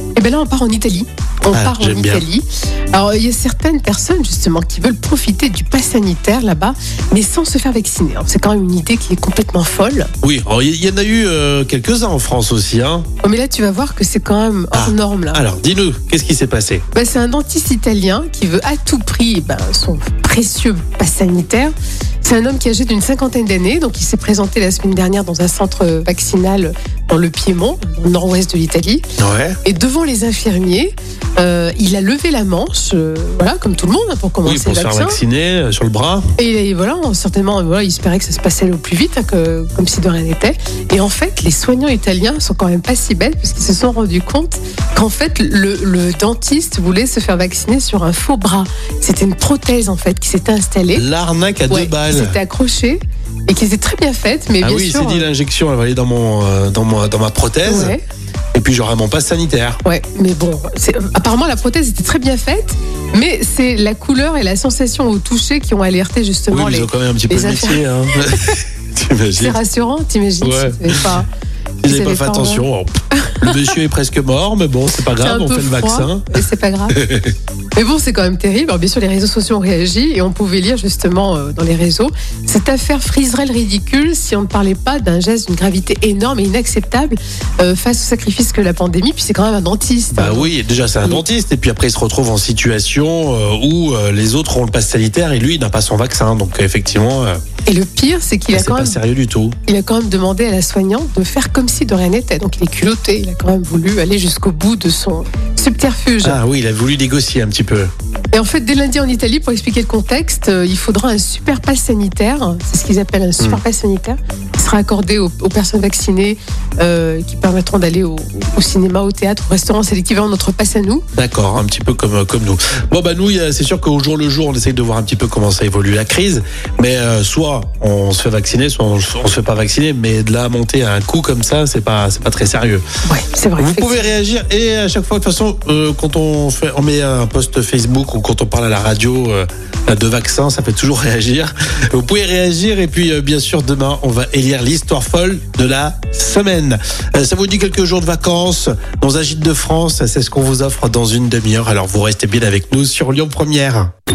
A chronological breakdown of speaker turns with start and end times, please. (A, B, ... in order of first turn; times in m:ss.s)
0:00.2-0:10.1 A
0:01.5-0:02.2 B
0:10.2-0:13.1 B
0:13.2-0:15.4 A
0:14.7-0:16.8 B
0:16.9-0:21.7 A
0:22.2-0:29.0 A
0:29.2-0:29.6 B
0:29.6-0:35.2 A
0:34.4-0:36.2 B
0:36.4-0:51.0 A
0:50.9-0:52.4 B
0:51.7-0:55.3 A
0:54.6-0:57.9 B
0:57.6-0:58.0 A
0:58.5-0:59.8 B
0:59.8-1:08.5 A
1:06.5-1:09.6 B
1:09.4-1:11.3 A
1:10.4-1:11.1 B
1:11.8-1:17.3 B
1:11.8-1:12.7 A
1:13.3-1:13.5 A
1:15.2-1:17.0 A
1:17.8-1:30.5 A
1:30.1-1:37.4 B
1:37.7-1:39.0 A
1:38.5-1:39.6 B
1:39.7-1:46.4 A
1:46.2-1:47.9 B
1:48.3-2:01.0 A
2:01.1-2:12.8 B
2:13.0-2:14.1 A
2:13.6-2:33.9 B